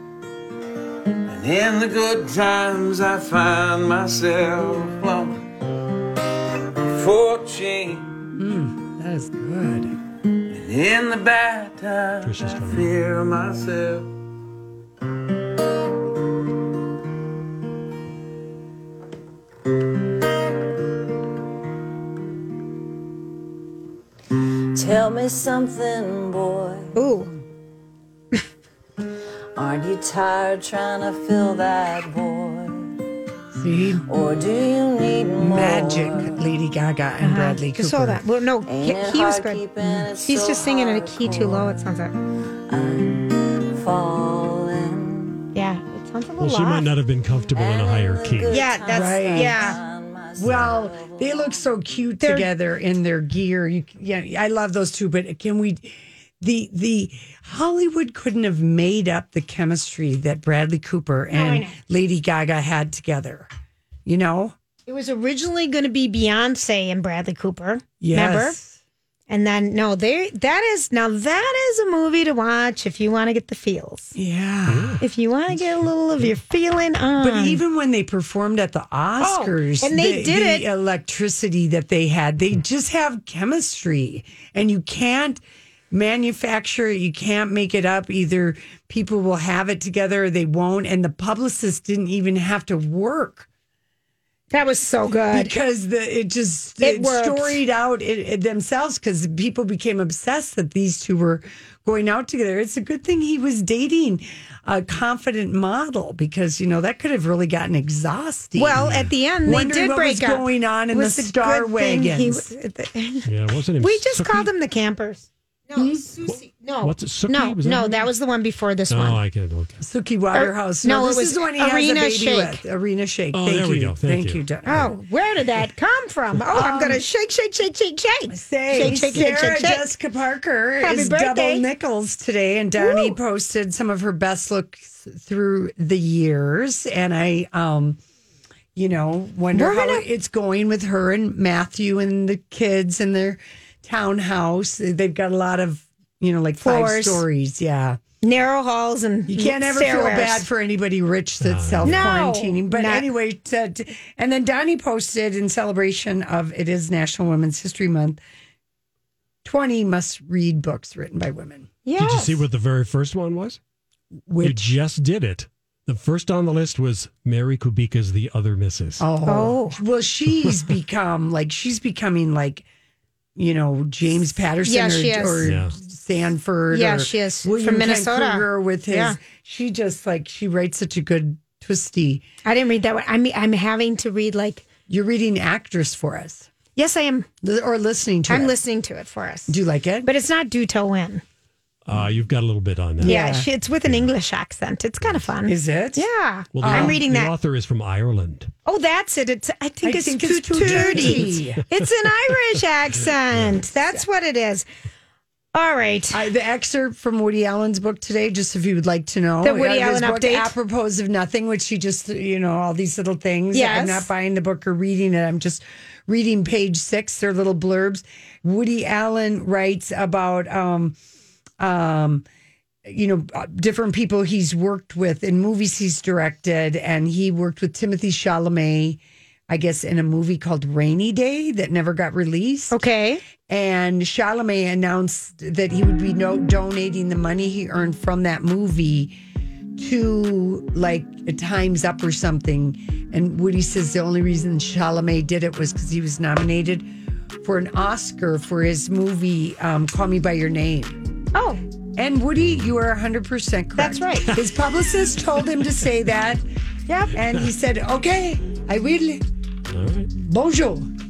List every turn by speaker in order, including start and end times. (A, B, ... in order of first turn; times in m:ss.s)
0:01.2-0:05.4 A
0:06.9-0:08.2 A
0:08.3-0:09.9 B
0:10.5-0:14.1 A
0:12.2-0:12.9 C
0:24.7-0:27.0 D
0:26.9-0:27.3 E
0:29.6-0:32.9 D
0:33.5-0:34.0 B
0:34.0-0:36.4 D
0:35.4-0:38.2 B
0:37.2-0:42.1 E
0:38.6-0:41.8 D
0:42.7-0:45.5 D
0:45.5-0:46.9 E
0:46.4-0:48.7 C
0:47.4-0:51.8 D
0:48.5-0:49.8 E
0:48.9-0:49.7 B
0:50.4-1:03.5 B
0:50.4-0:50.7 C
0:52.2-0:52.5 E
1:01.3-1:01.8 E
1:04.0-1:04.5 B
1:04.8-1:08.6 E
1:08.0-1:08.8 B
1:09.3-1:14.1 E
1:14.1-1:15.0 B
1:14.7-1:15.0 C
1:15.0-1:17.6 E
1:17.2-1:33.5 B
1:19.2-1:20.6 E
1:34.5-1:35.5 E
1:35.1-1:48.8 B
1:36.8-1:37.6 E
1:48.6-1:53.3 E
1:48.8-1:49.1 C
1:49.4-1:52.5 B
1:53.2-1:54.5 C
1:53.8-1:59.2 E
1:55.7-1:56.0 B
1:56.3-1:58.1 C
1:58.9-1:59.8 C
1:59.8-2:04.9 B
2:00.3-2:02.6 E
2:03.3-2:04.9 C
2:04.6-2:09.8 E
2:06.5-2:07.0 B
2:08.3-2:18.0 B
2:08.9-2:09.2 C
2:10.8-2:11.6 E
2:12.8-2:13.2 E
2:18.7-2:28.0 B
2:19.5-2:20.0 E
2:26.6-2:27.2 E
2:28.2-2:30.4 E
2:29.3-2:38.2 B
2:31.4-2:32.1 C
2:31.8-2:33.0 E
2:39.4-2:41.7 B
2:41.8-2:42.4 E
2:42.0-2:43.6 C
2:44.3-2:44.7 B
2:44.4-2:49.0 C
2:49.0-2:52.7 B
2:49.2-2:49.8 E
2:53.4-3:02.2 B
2:54.6-2:55.5 E
2:55.4-2:55.7 C
2:56.7-2:59.2 E
3:02.4-3:04.7 E
3:04.9-3:06.5 B
3:06.7-3:07.3 E
3:07.4-3:08.5 B
3:08.3-3:11.2 E
3:09.5-3:10.1 B
3:11.8-3:13.2 C
3:13.0-3:13.5 B
3:13.0-3:17.3 E
3:13.8-3:14.1 C
3:15.4-3:16.0 B
3:16.5-3:18.5 C
3:16.6-3:17.0 B
3:18.6-3:24.7 E
3:19.8-3:21.6 B
3:20.6-3:21.8 C
3:23.3-3:23.6 C
3:25.5-3:26.2 E
3:26.1-3:41.0 B
3:29.4-3:30.5 E
3:33.5-3:34.1 E
3:41.6-3:42.3 B
3:42.8-3:52.8 B
3:52.7-3:53.2 E
3:53.4-3:59.1 B
3:59.8-4:06.9 B
4:07.4-4:11.0 B
4:11.3-4:11.6 E
4:12.0-4:16.4 B
4:12.4-4:12.7 C
4:13.8-4:14.4 E
4:16.9-4:17.1 E
4:17.1-4:19.2 B
4:19.7-4:20.1 C
4:20.1-4:20.9 B